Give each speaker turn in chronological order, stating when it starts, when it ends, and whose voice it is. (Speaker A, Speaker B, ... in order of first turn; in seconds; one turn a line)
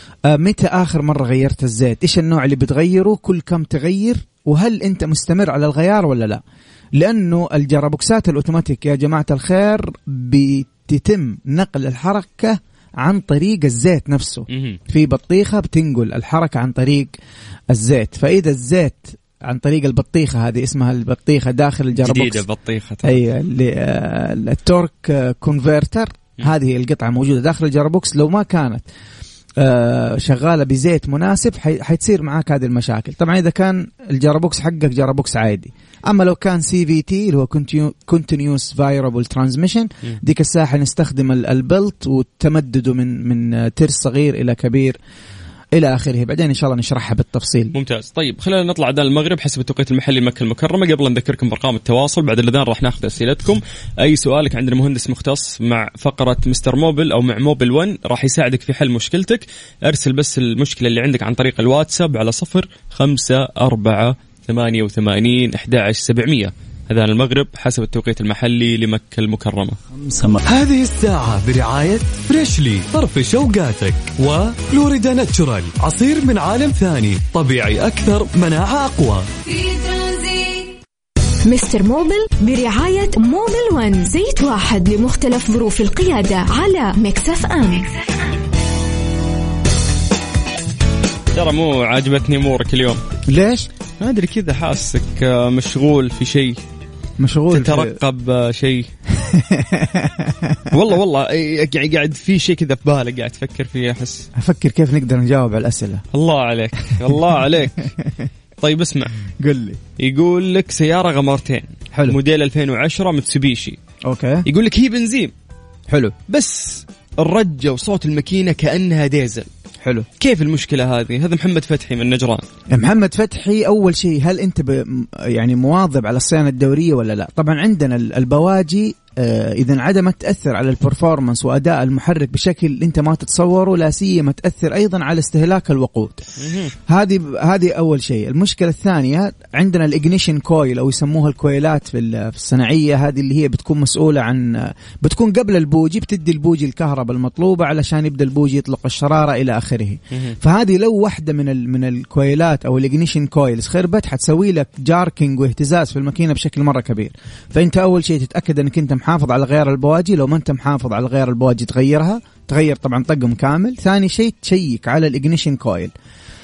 Speaker A: 0.3-6.4
Speaker A: 7.0-17.1
Speaker B: 14.5-14.8
Speaker A: 17.7-22.4
Speaker B: 22.0-23.2
Speaker A: 23.0-28.9
Speaker A: 29.6-45.0
Speaker A: 45.8-47.8
Speaker B: 47.8-69.8
Speaker C: 70.4-79.3
Speaker D: 79.5-80.8
Speaker D: 81.5-87.9
Speaker B: 91.3-93.0
Speaker A: 93.3-93.7
Speaker B: 94.0-96.6
Speaker A: 97.2-98.0
Speaker B: 97.5-98.9
Speaker A: 99.2-100.7
Speaker B: 100.7-104.3
Speaker A: 104.4-106.0
Speaker B: 106.1-107.9
Speaker B: 108.6-109.2
Speaker A: 109.4-109.8
Speaker B: 110.0-113.8
Speaker A: 111.9-112.2
Speaker A: 114.0-114.5
Speaker B: 114.5-115.3
Speaker A: 115.9-116.2
Speaker B: 116.2-119.5
Speaker A: 119.8-120.1
Speaker B: 120.2-122.4
Speaker A: 122.7-136.3
Speaker B: 136.4-136.7
Speaker A: 136.9-165.9